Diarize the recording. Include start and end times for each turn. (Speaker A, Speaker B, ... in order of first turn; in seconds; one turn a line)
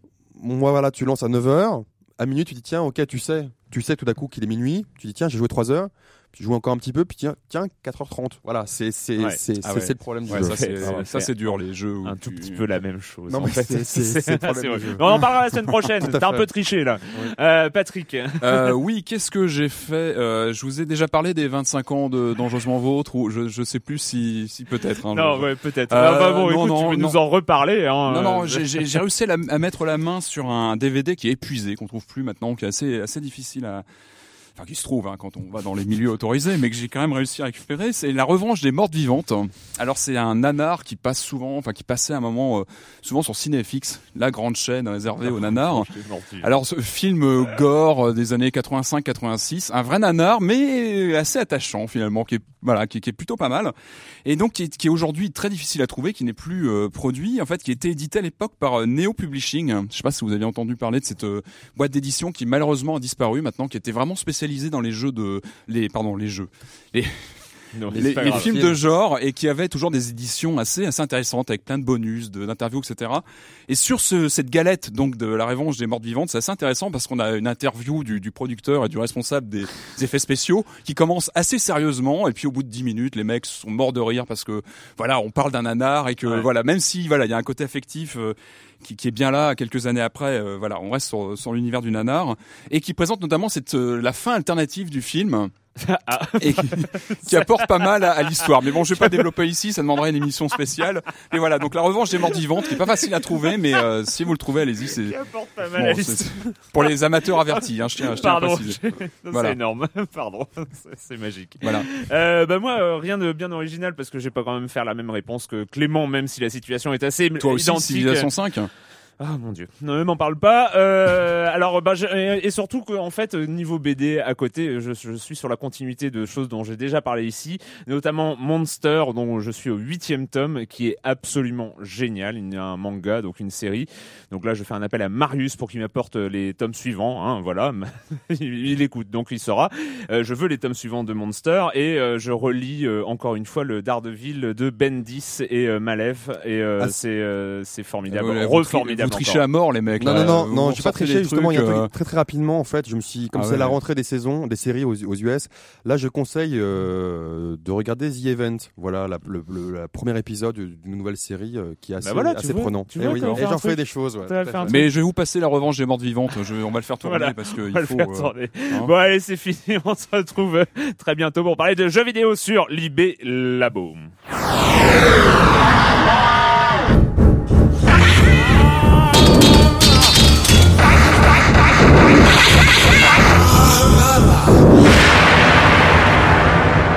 Speaker A: 0.3-11.0
Speaker B: 9.6-12.6
Speaker C: 10.3-18.7
Speaker A: 13.3-15.2
Speaker A: 16.0-16.5
Speaker B: 18.4-27.2
Speaker C: 25.1-28.9
Speaker B: 28.1-33.8
Speaker B: 34.5-45.9
Speaker C: 45.2-46.5
Speaker B: 46.4-53.7
Speaker B: 54.2-67.4
Speaker C: 67.7-68.5
Speaker A: 67.9-68.8
Speaker B: 67.9-95.5
Speaker C: 95.8-99.2
Speaker B: 96.4-105.2
Speaker C: 102.3-103.5
Speaker C: 104.9-118.3
Speaker B: 105.8-108.8
Speaker B: 109.3-109.6
Speaker B: 111.6-111.9
Speaker B: 117.4-118.7
Speaker C: 119.2-149.4
Speaker B: 148.1-151.9
Speaker A: 150.0-164.8
Speaker B: 153.3-153.8
Speaker C: 162.0-164.8
Speaker B: 163.0-163.4
Speaker B: 164.7-168.9
Speaker C: 167.0-174.1